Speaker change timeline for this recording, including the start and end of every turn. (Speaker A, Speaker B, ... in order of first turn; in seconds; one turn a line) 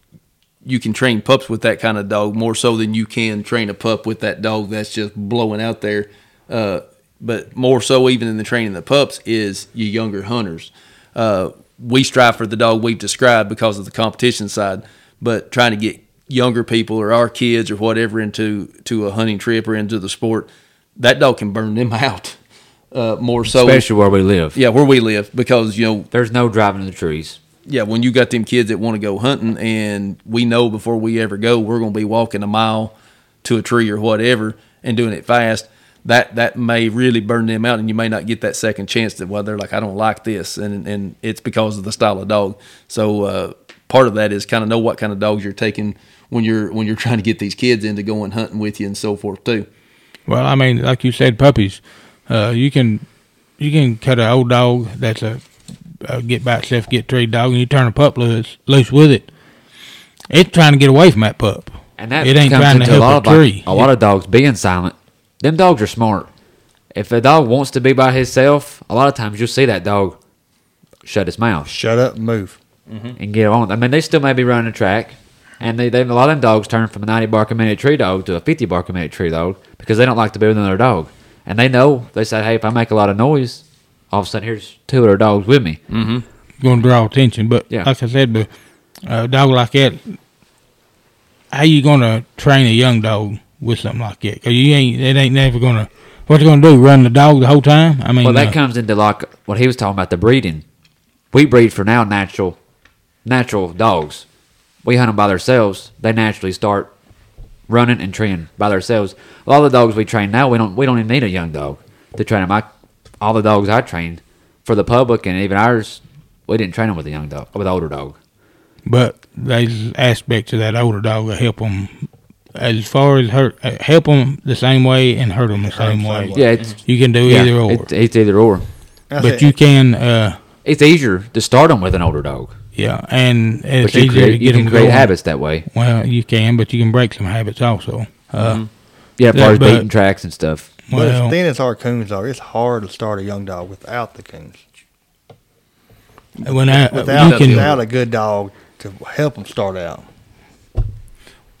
Speaker A: 0.6-22.4
Speaker A: 22.9-23.8
Speaker B: 23.5-24.6
Speaker A: 24.5-26.1
Speaker B: 26.1-27.4
Speaker A: 27.6-32.9
Speaker A: 33.4-49.7
Speaker C: 50.3-53.0
Speaker C: 53.6-55.4
Speaker C: 56.0-59.3
Speaker C: 60.3-63.9
Speaker B: 62.0-66.3
Speaker B: 66.9-70.2
Speaker B: 71.0-71.7
Speaker D: 71.7-72.6
Speaker A: 72.9-73.1
Speaker B: 73.2-85.8
Speaker A: 85.9-86.2
Speaker C: 86.6-88.5
Speaker C: 89.1-90.2
Speaker C: 91.5-98.5
Speaker B: 98.2-100.6
Speaker B: 101.3-102.6
Speaker B: 103.2-104.2
Speaker B: 104.8-106.9
Speaker B: 107.7-112.7
Speaker B: 113.2-118.2
Speaker C: 118.8-127.9
Speaker D: 125.6-126.5
Speaker B: 126.3-128.6
Speaker D: 129.1-129.5
Speaker C: 129.2-130.4
Speaker B: 130.6-132.5
Speaker C: 132.7-135.1
Speaker B: 133.8-135.7
Speaker C: 135.7-139.8
Speaker A: 138.4-138.7
Speaker B: 139.2-140.7
Speaker C: 140.9-141.3
Speaker D: 140.9-144.6
Speaker D: 146.4-150.1
Speaker C: 146.4-147.7
Speaker A: 147.0-147.8